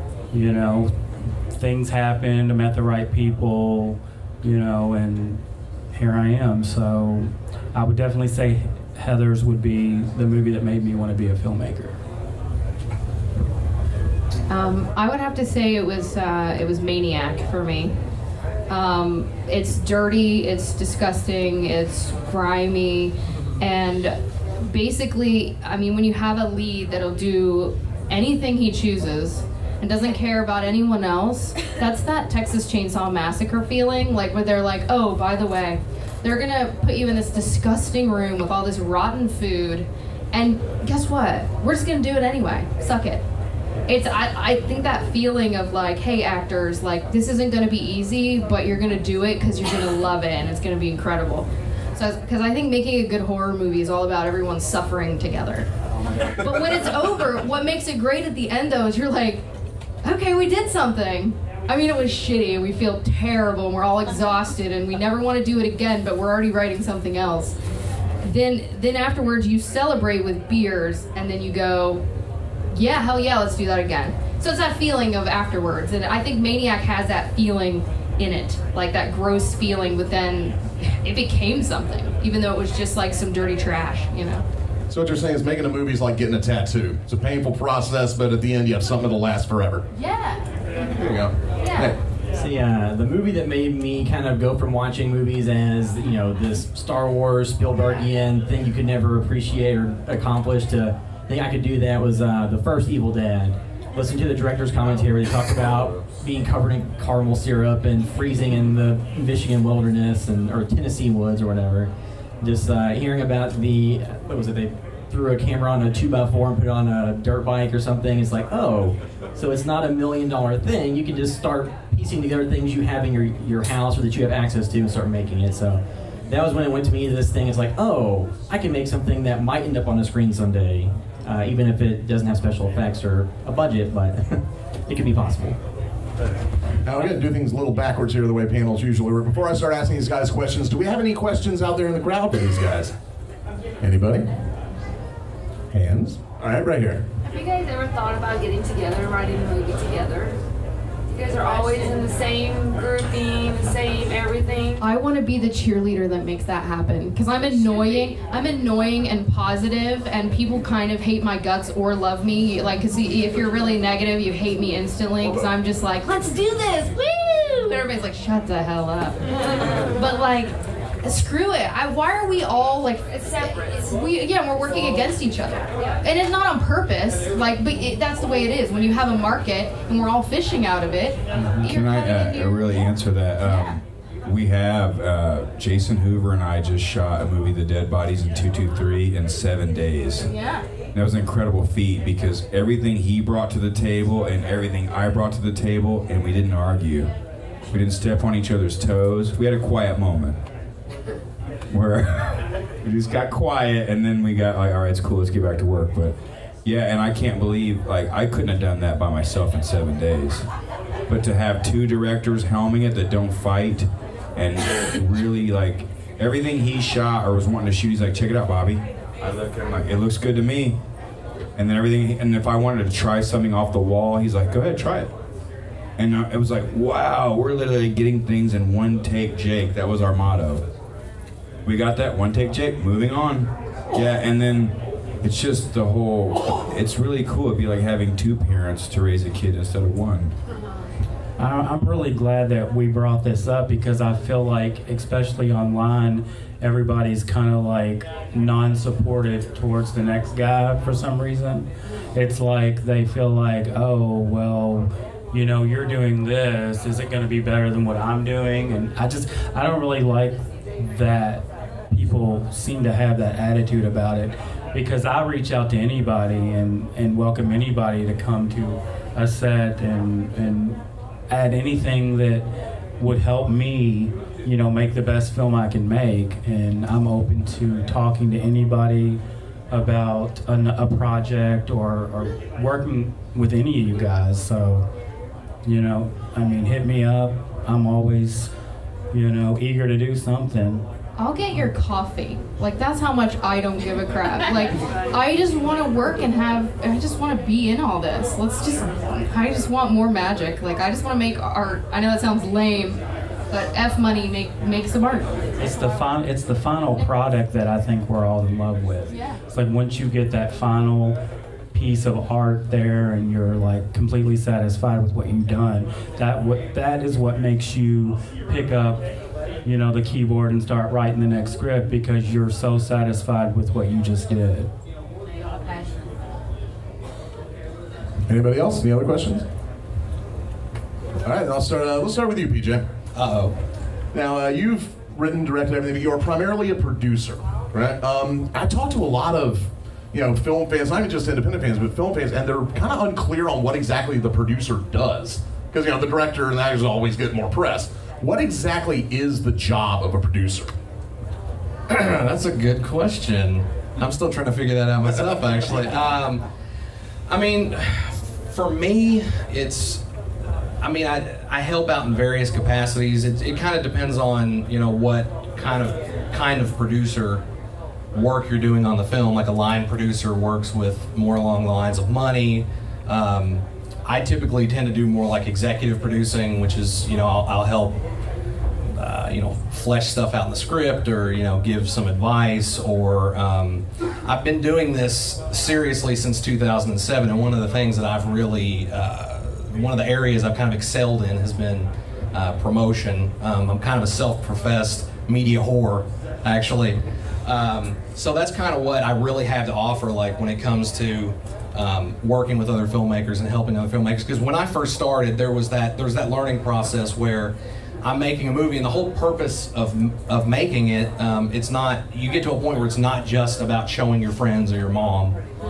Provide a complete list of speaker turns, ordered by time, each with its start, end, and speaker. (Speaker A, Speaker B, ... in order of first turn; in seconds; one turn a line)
Speaker A: 0.3-0.9
Speaker A: 1.6-5.4
Speaker A: 5.9-12.0
Speaker B: 14.5-17.9
Speaker B: 18.7-43.2
Speaker B: 43.9-55.7
Speaker B: 56.3-59.5
Speaker B: 60.0-67.5
Speaker B: 68.2-72.0
Speaker B: 72.7-84.4
Speaker C: 84.9-89.8
Speaker B: 89.9-90.5
Speaker C: 90.9-92.0
Speaker D: 92.3-111.9
Speaker D: 112.4-135.6
Speaker C: 136.8-142.9
Speaker D: 136.9-137.2
Speaker C: 143.8-144.3
Speaker C: 145.7-147.0
Speaker E: 147.2-150.4
Speaker E: 151.1-154.8
Speaker B: 154.8-169.2
Speaker B: 169.9-182.9
Speaker F: 181.6-190.3
Speaker B: 183.4-183.7
Speaker B: 190.2-190.6
Speaker F: 190.9-197.1
Speaker F: 197.7-200.4
Speaker F: 201.7-210.4
Speaker F: 211.1-220.8
Speaker F: 221.6-225.1
Speaker F: 226.0-230.6
Speaker F: 231.6-240.3
Speaker A: 241.4-272.4
Speaker A: 273.0-279.2
Speaker A: 279.7-284.9
Speaker A: 285.6-288.5
Speaker A: 289.1-290.8
Speaker B: 291.2-305.4
Speaker A: 305.6-311.2
Speaker B: 309.1-309.4
Speaker A: 311.7-319.0
Speaker A: 319.6-324.7
Speaker C: 328.3-329.4
Speaker C: 331.2-332.8
Speaker G: 333.1-333.5
Speaker C: 334.1-350.7
Speaker G: 351.9-356.4
Speaker G: 357.3-360.0
Speaker G: 360.8-367.4
Speaker G: 368.1-378.0
Speaker G: 378.9-415.4